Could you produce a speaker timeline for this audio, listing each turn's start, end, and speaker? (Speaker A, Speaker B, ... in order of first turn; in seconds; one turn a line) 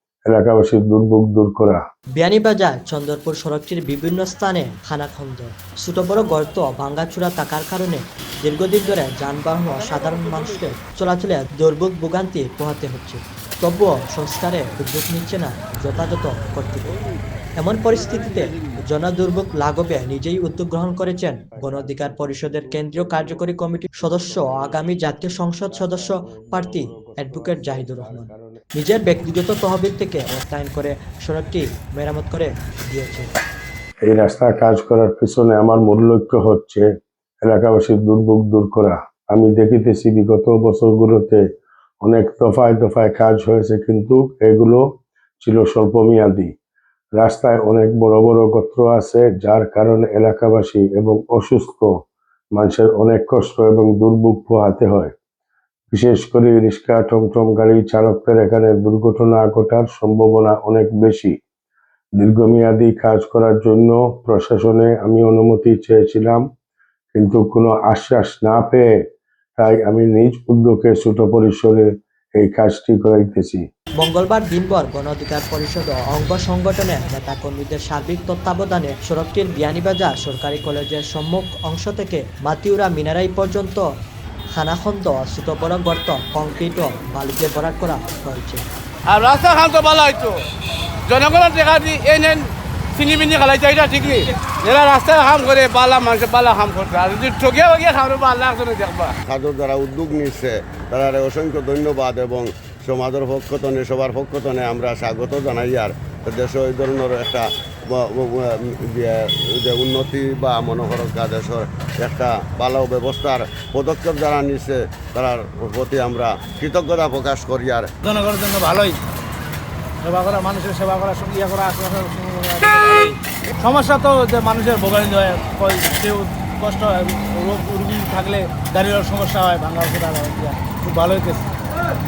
Speaker A: 0.3-1.8
Speaker B: 2.2-16.9
Speaker B: 17.6-33.3
Speaker A: 21.5-28.6
Speaker A: 34.1-36.9
Speaker A: 37.5-41.4
Speaker A: 42.0-44.8
Speaker A: 45.4-46.5
Speaker A: 47.2-51.9
Speaker A: 52.5-55.1
Speaker A: 55.9-61.4
Speaker A: 62.2-66.4
Speaker A: 67.1-68.9
Speaker A: 69.6-73.6
Speaker B: 74.0-83.9
Speaker B: 84.5-88.6
Speaker C: 89.0-90.5
Speaker C: 91.0-99.2
Speaker D: 99.2-117.9
Speaker E: 118.0-119.0
Speaker E: 120.0-131.4